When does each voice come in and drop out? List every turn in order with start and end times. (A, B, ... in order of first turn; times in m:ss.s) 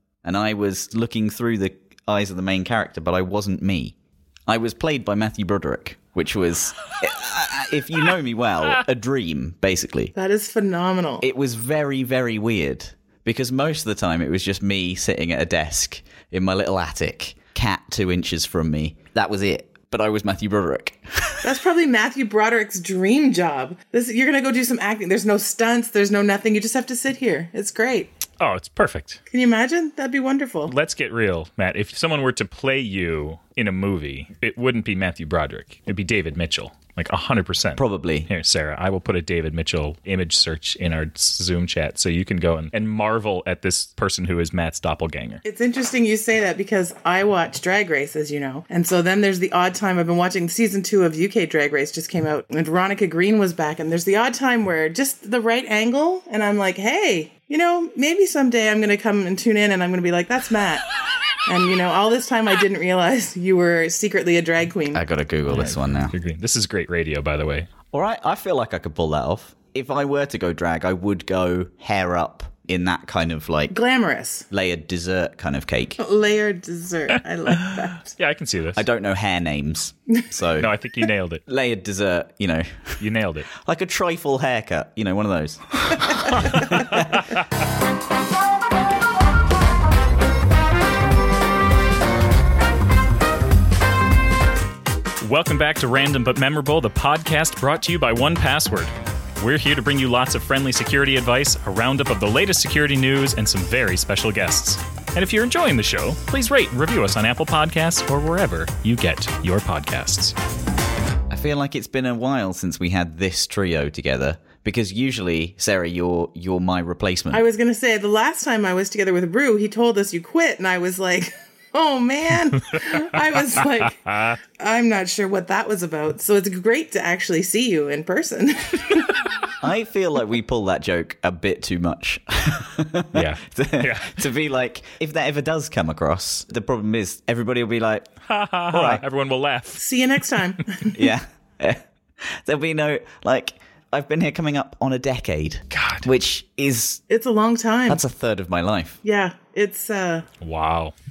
0:00.2-0:03.9 A
0:04.5-0:10.1 A
0:10.1-0:11.2 B
0:11.2-0:21.5 A
0:21.4-0:28.1 B
0:28.4-0:29.2 C
0:29.3-0:30.7 B
0:30.7-0:45.4 C
0:37.8-0:38.3 A
0:45.4-1:00.9 B
1:01.4-1:05.0 B
1:04.9-1:06.1 A
1:05.5-1:07.7 C
1:07.9-1:13.7 A
1:13.7-1:14.5 B
1:14.5-1:16.0 A
1:16.0-1:18.1 B
1:18.1-1:18.8 C
1:18.8-1:20.7 A
1:20.6-1:21.4 C
1:21.5-1:27.3 A
1:23.0-1:23.5 C
1:26.5-1:27.4 C
1:35.2-1:50.3 C
1:51.3-1:57.4 A
1:57.3-2:09.2 B
2:04.0-2:04.4 C
2:09.6-2:18.1 A
2:13.1-2:14.2 C
2:18.3-2:19.8 C
2:18.7-2:19.0 A
2:19.8-2:21.1 B
2:20.9-2:27.0 A
2:25.7-2:26.0 C
2:27.1-2:28.0 B
2:27.9-2:29.0 A
2:29.0-2:30.3 B
2:30.4-2:30.9 C